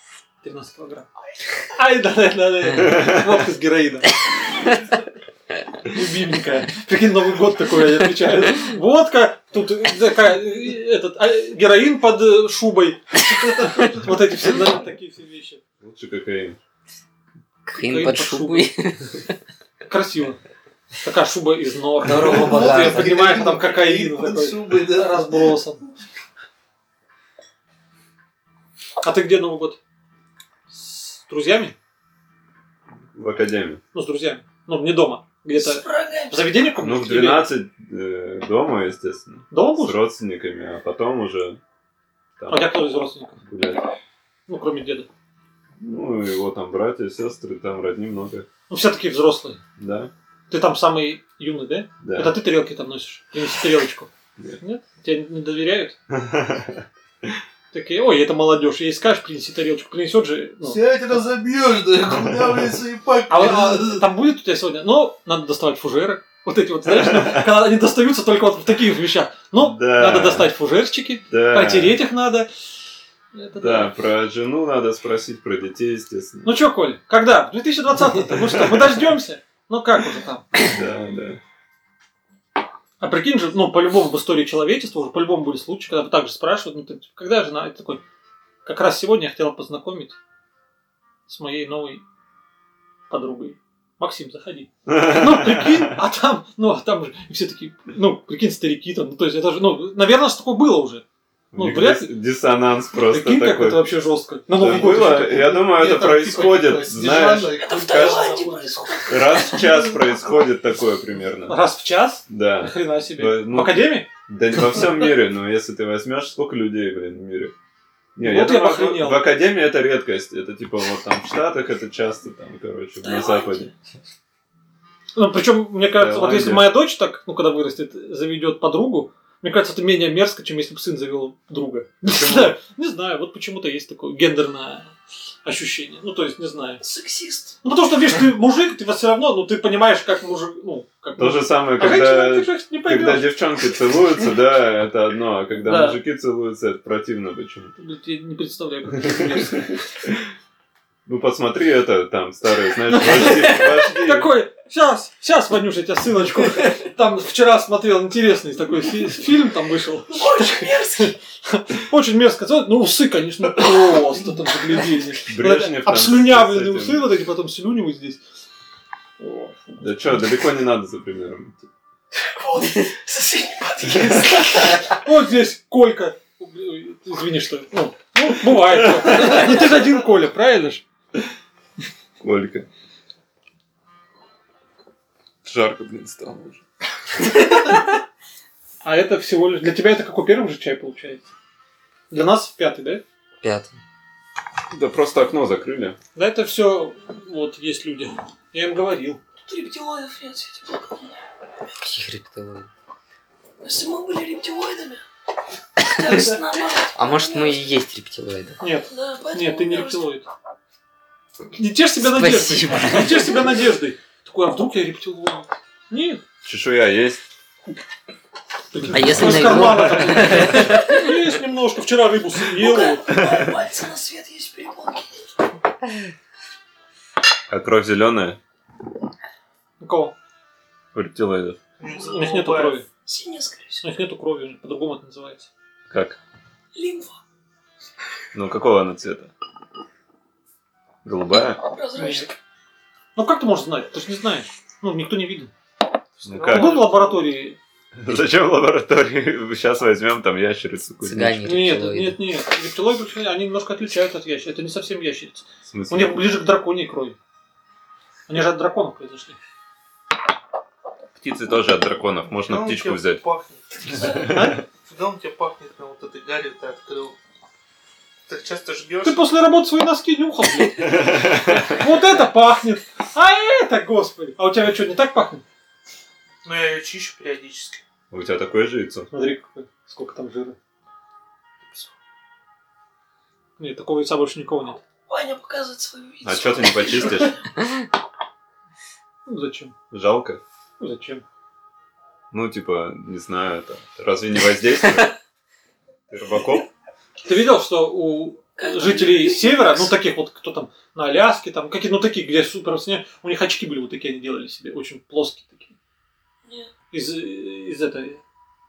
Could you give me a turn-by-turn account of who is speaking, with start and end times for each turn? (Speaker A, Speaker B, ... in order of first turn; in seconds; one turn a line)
Speaker A: 0.4-1.1
Speaker A: 1.7-4.7
Speaker B: 2.8-3.2
Speaker A: 5.8-15.6
Speaker B: 15.8-16.6
Speaker C: 17.6-19.4
Speaker A: 17.7-18.7
Speaker A: 19.8-20.4
Speaker A: 21.0-25.8
Speaker C: 22.0-23.3
Speaker D: 22.2-25.5
Speaker A: 29.0-29.8
Speaker A: 30.7-31.7
Speaker B: 33.1-33.8
Speaker A: 33.9-37.5
Speaker E: 35.5-36.4
Speaker B: 36.8-41.6
Speaker A: 39.5-40.0
Speaker B: 42.4-42.7
Speaker A: 42.5-43.4
Speaker B: 43.4-43.9
Speaker A: 44.5-45.1
Speaker B: 45.8-48.5
Speaker A: 48.7-49.6
Speaker B: 49.8-50.1
Speaker A: 50.5-56.0
Speaker B: 52.0-52.4
Speaker B: 56.1-57.3
Speaker A: 57.7-60.8
Speaker D: 60.6-64.1
Speaker A: 63.3-72.5
Speaker B: 66.9-67.4
Speaker B: 69.6-70.5
Speaker B: 71.3-72.0
Speaker A: 73.3-73.9
Speaker B: 73.6-76.5
Speaker A: 76.4-80.7
Speaker B: 78.3-78.7
Speaker B: 80.5-81.4
Speaker A: 83.0-88.0
Speaker A: 88.6-90.2
Speaker A: 91.3-92.0
Speaker A: 93.1-101.0
Speaker B: 94.8-96.0
Speaker B: 101.5-103.8
Speaker A: 101.5-102.1
Speaker A: 103.1-105.5
Speaker B: 104.5-108.3
Speaker D: 104.6-109.8
Speaker E: 107.6-109.7
Speaker B: 109.1-111.6
Speaker A: 111.5-114.1
Speaker B: 112.3-117.5
Speaker B: 118.2-123.7
Speaker A: 118.2-119.3
Speaker E: 123.0-123.7
Speaker A: 125.2-134.9
Speaker B: 126.0-126.8
Speaker B: 132.0-132.6
Speaker A: 135.4-136.8
Speaker E: 136.8-137.6
Speaker A: 137.6-143.3
Speaker B: 141.2-147.7
Speaker A: 145.6-146.0
Speaker A: 147.8-149.8
Speaker B: 149.2-149.4
Speaker B: 151.1-154.3
Speaker A: 152.9-168.2
Speaker E: 160.1-161.1
Speaker B: 165.2-167.1
Speaker A: 169.2-170.3
Speaker B: 169.8-171.7
Speaker E: 172.2-174.8
Speaker A: 174.8-180.8
Speaker B: 179.0-179.4
Speaker B: 182.2-182.7
Speaker B: 185.4-186.6
Speaker A: 188.8-191.3
Speaker A: 192.1-193.0
Speaker C: 193.4-193.8
Speaker B: 194.7-196.0
Speaker A: 196.1-199.2
Speaker E: 199.4-201.2
Speaker C: 201.8-202.7
Speaker E: 203.6-205.0
Speaker E: 205.8-207.7
Speaker C: 206.9-208.6
Speaker A: 208.6-210.3
Speaker E: 208.9-210.1
Speaker A: 211.5-216.2
Speaker C: 212.0-213.4
Speaker B: 216.4-217.2
Speaker A: 218.7-223.1
Speaker C: 218.9-221.1
Speaker B: 219.0-219.9
Speaker E: 222.6-225.2
Speaker B: 223.2-223.5
Speaker B: 227.5-228.4
Speaker A: 229.8-230.1
Speaker B: 230.9-231.6
Speaker D: 231.8-232.8
Speaker A: 231.9-232.8
Speaker E: 233.0-233.8
Speaker A: 233.8-235.5
Speaker B: 235.9-236.2
Speaker E: 236.7-237.2
Speaker B: 238.3-239.3
Speaker B: 241.0-241.6
Speaker E: 241.6-242.3
Speaker A: 241.9-242.3
Speaker A: 243.2-245.5
Speaker D: 246.2-247.2
Speaker B: 246.2-246.8
Speaker A: 246.4-247.6
Speaker B: 248.0-251.4
Speaker C: 251.0-252.2
Speaker A: 251.4-257.2
Speaker B: 255.7-256.2
Speaker A: 258.3-259.4
Speaker B: 261.1-263.2
Speaker D: 262.4-264.0
Speaker E: 263.9-264.2
Speaker B: 264.0-264.5
Speaker A: 264.2-264.6
Speaker D: 264.8-267.2
Speaker D: 268.3-269.3
Speaker A: 269.0-275.4
Speaker B: 270.8-271.8
Speaker D: 276.4-277.8
Speaker B: 278.1-279.1
Speaker A: 279.1-280.6
Speaker A: 283.6-284.8
Speaker E: 285.1-287.4
Speaker B: 286.2-287.4
Speaker A: 289.2-289.7
Speaker B: 289.9-290.4
Speaker A: 290.8-291.2
Speaker B: 292.3-295.1
Speaker B: 296.1-296.7
Speaker A: 297.2-305.7
Speaker E: 298.6-299.9
Speaker E: 306.4-306.7
Speaker A: 306.9-308.2